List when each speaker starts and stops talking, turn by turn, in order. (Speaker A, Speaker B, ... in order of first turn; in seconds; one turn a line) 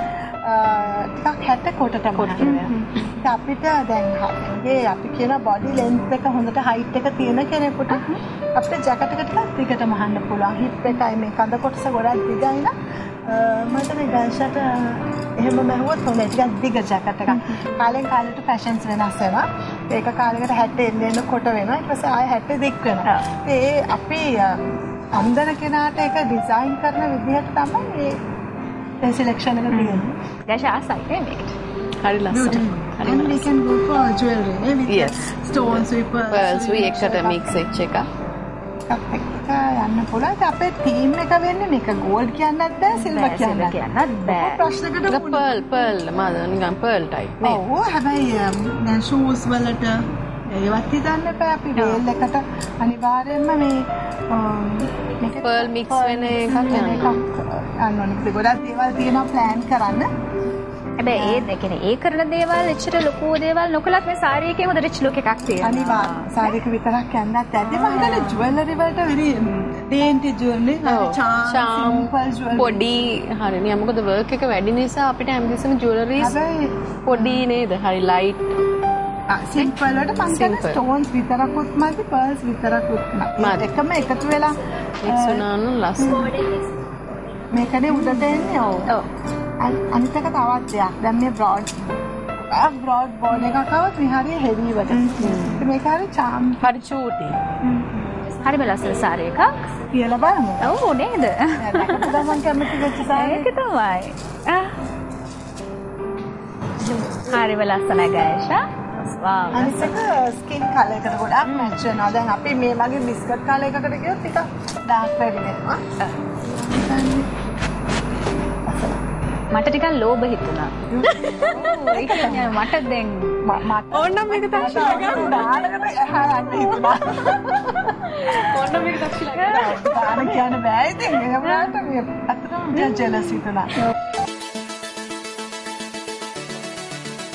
Speaker A: 0.4-12.7
Speaker B: 2.2-3.1
Speaker B: 7.9-8.2
Speaker A: 13.2-28.2
Speaker B: 17.3-17.6
Speaker A: 29.0-30.1
Speaker B: 29.7-31.5
Speaker C: 32.0-33.5
Speaker A: 32.3-37.7
Speaker C: 34.9-38.1
Speaker A: 38.9-45.6
Speaker B: 42.9-44.6
Speaker C: 45.1-47.6
Speaker A: 47.4-60.1
Speaker B: 51.8-52.0
Speaker C: 55.4-57.1
Speaker B: 61.0-66.5
Speaker A: 61.1-61.5
Speaker A: 65.6-72.9
Speaker C: 70.9-76.3
Speaker A: 76.2-77.4
Speaker C: 77.0-78.5
Speaker A: 79.3-85.5
Speaker C: 80.2-80.8
Speaker C: 83.4-83.7
Speaker C: 85.0-86.5
Speaker A: 86.0-86.4
Speaker A: 87.5-88.9
Speaker A: 89.6-96.7
Speaker B: 95.0-95.7
Speaker C: 95.2-95.6
Speaker C: 96.6-97.4
Speaker B: 97.6-99.7
Speaker A: 99.9-100.8
Speaker B: 100.6-104.7
Speaker A: 101.5-103.5
Speaker A: 106.8-107.2
Speaker B: 107.3-110.0
Speaker A: 109.5-115.8
Speaker B: 111.5-111.7
Speaker A: 116.5-117.3
Speaker A: 118.7-119.0
Speaker B: 119.5-120.8
Speaker A: 120.9-122.7
Speaker B: 121.3-123.4
Speaker A: 123.4-128.0
Speaker C: 123.9-125.6
Speaker C: 128.2-130.1
Speaker B: 129.3-130.3
Speaker A: 129.4-133.8